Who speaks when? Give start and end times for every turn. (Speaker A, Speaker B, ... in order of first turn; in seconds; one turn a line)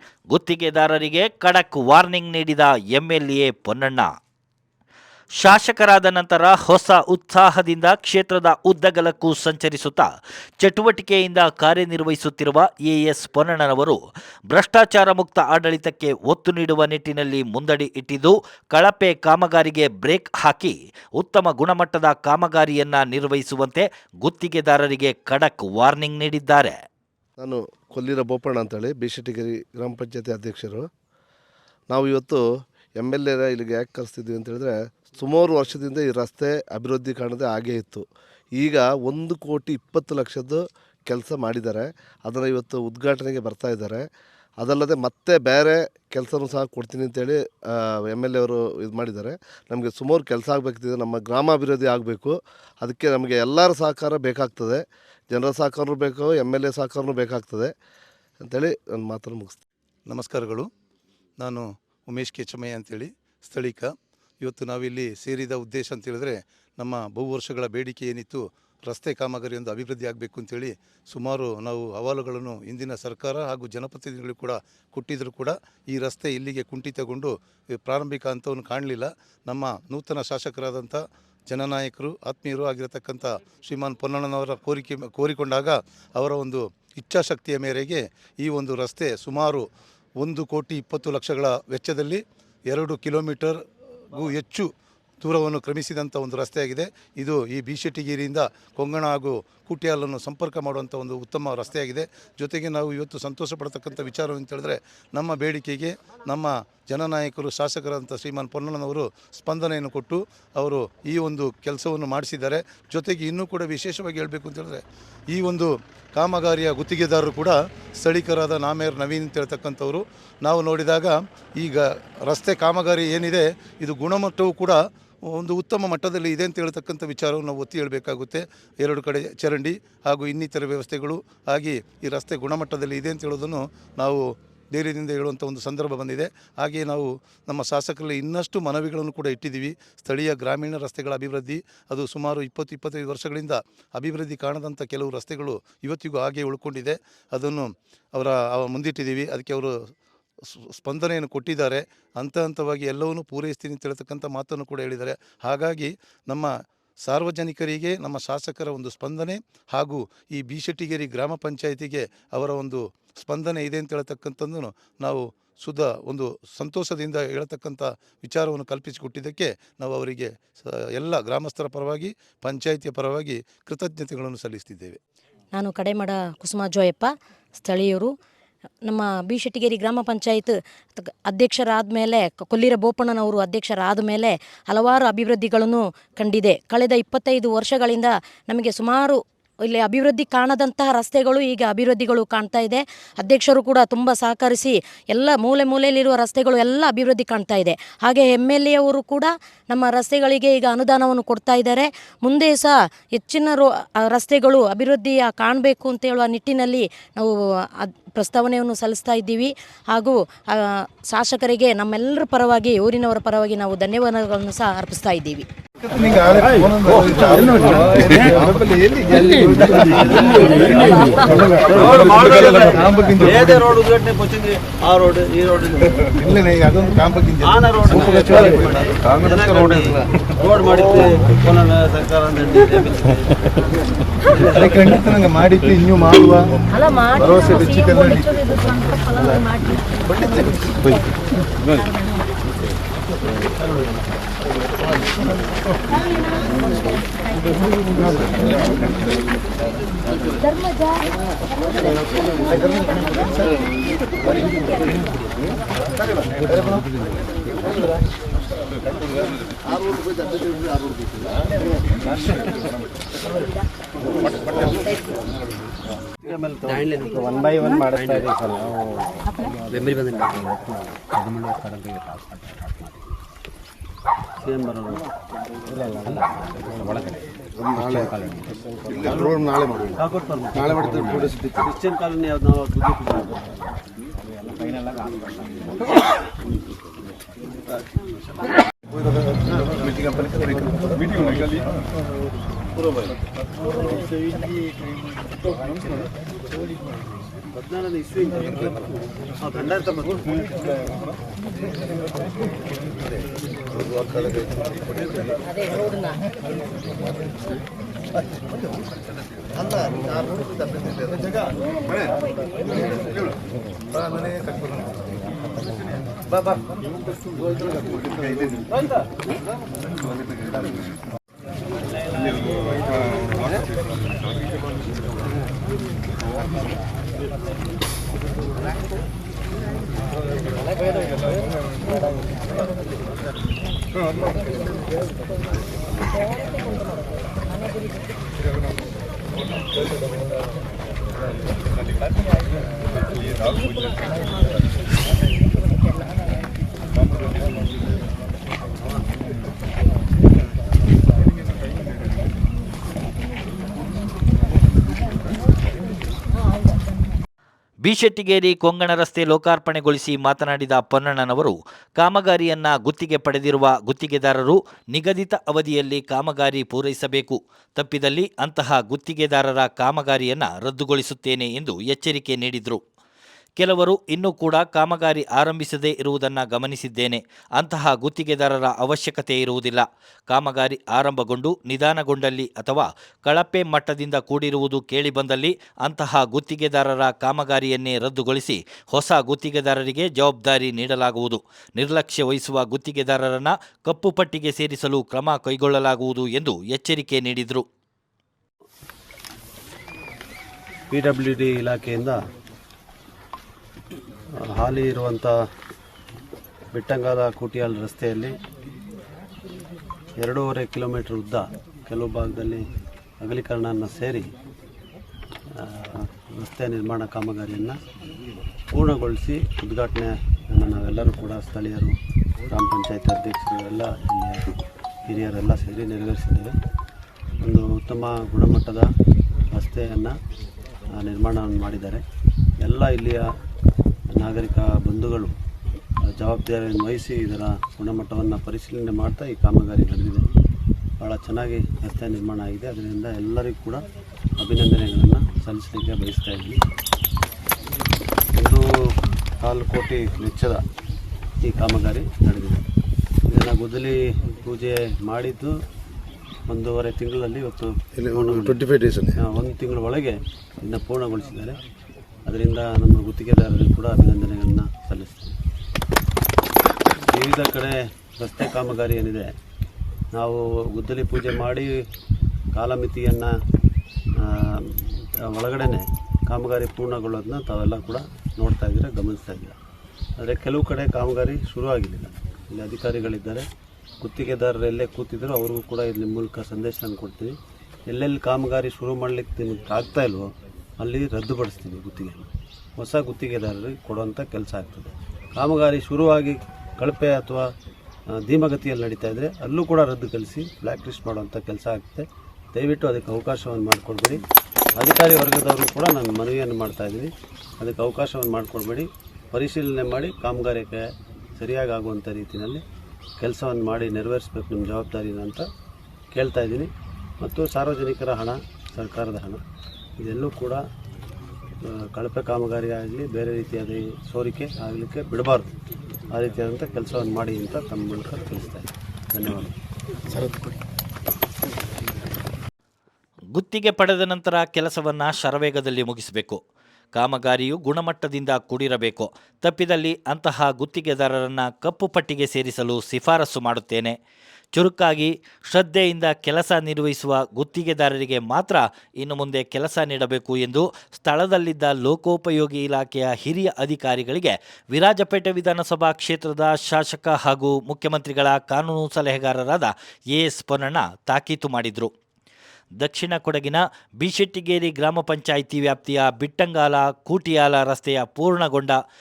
Speaker A: 0.3-4.1
Speaker A: 5.4-10.1
Speaker A: 10.6-14.0
Speaker A: 14.5-26.8
Speaker B: 27.4-30.9
Speaker B: 31.9-32.4
Speaker B: 33.0-38.0
Speaker B: 38.5-44.0
Speaker B: 44.6-57.7
Speaker B: 58.4-59.6
Speaker C: 60.1-60.7
Speaker C: 61.4-89.7
Speaker C: 90.2-93.6
Speaker C: 94.1-94.7
Speaker C: 95.2-134.2
Speaker C: 134.7-149.7
Speaker C: 150.8-156.5
Speaker C: 157.0-175.0
Speaker D: 175.5-177.1
Speaker D: 177.6-178.1
Speaker D: 178.9-207.3
Speaker D: 207.8-215.4
Speaker C: 215.8-220.5
Speaker E: 219.2-226.1
Speaker C: 221.2-223.6
Speaker C: 226.2-229.8
Speaker E: 227.4-233.3
Speaker E: 234.3-234.9
Speaker C: 234.5-236.6
Speaker D: 236.7-240.4
Speaker C: 237.1-238.4
Speaker E: 243.5-244.1
Speaker D: 250.4-251.0
Speaker D: 252.4-253.3
Speaker B: 260.0-260.9
Speaker E: 266.2-268.4
Speaker F: 267.2-268.7
Speaker E: 269.7-270.4
Speaker F: 270.2-272.9
Speaker E: 274.4-275.0
Speaker F: 275.8-277.2
Speaker F: 277.8-278.4
Speaker E: 278.9-283.5
Speaker F: 284.5-285.6
Speaker E: 287.8-288.1
Speaker E: 289.4-291.6
Speaker E: 293.8-294.4
Speaker E: 297.5-300.4
Speaker C: 303.8-305.4
Speaker D: 305.7-306.1
Speaker B: 309.6-311.4
Speaker C: 313.9-315.0
Speaker C: 318.0-318.6
Speaker E: 322.1-323.5
Speaker A: 357.8-372.8
Speaker A: 373.6-397.6
Speaker E: 400.9-402.2
Speaker E: 404.4-405.3
Speaker E: 406.7-408.4
Speaker E: 410.2-412.6
Speaker E: 413.2-414.3
Speaker E: 415.6-417.8
Speaker E: 418.7-421.9
Speaker E: 422.5-424.5
Speaker E: 425.1-426.5
Speaker E: 427.4-428.9
Speaker E: 429.5-430.2
Speaker E: 430.9-432.0
Speaker E: 432.6-433.2
Speaker E: 434.1-435.4
Speaker E: 436.1-440.2
Speaker E: 441.0-443.8
Speaker E: 444.4-446.6
Speaker E: 448.3-448.6
Speaker E: 449.4-450.6
Speaker E: 451.4-452.6
Speaker E: 453.3-455.6
Speaker E: 456.5-461.6
Speaker E: 462.2-465.4
Speaker E: 467.1-469.3
Speaker E: 470.1-471.7
Speaker E: 472.5-473.3
Speaker E: 474.2-474.6
Speaker E: 475.3-479.6
Speaker E: 480.2-483.4
Speaker E: 484.0-487.3
Speaker E: 487.9-497.5
Speaker E: 498.1-504.2
Speaker E: 504.8-510.8
Speaker E: 511.4-512.6
Speaker E: 513.2-515.5
Speaker E: 516.1-519.4
Speaker E: 520.0-520.6
Speaker E: 521.6-525.5
Speaker E: 526.1-529.6
Speaker A: 533.3-536.4
Speaker A: 537.0-544.0
Speaker A: 544.5-561.9
Speaker A: 562.8-568.8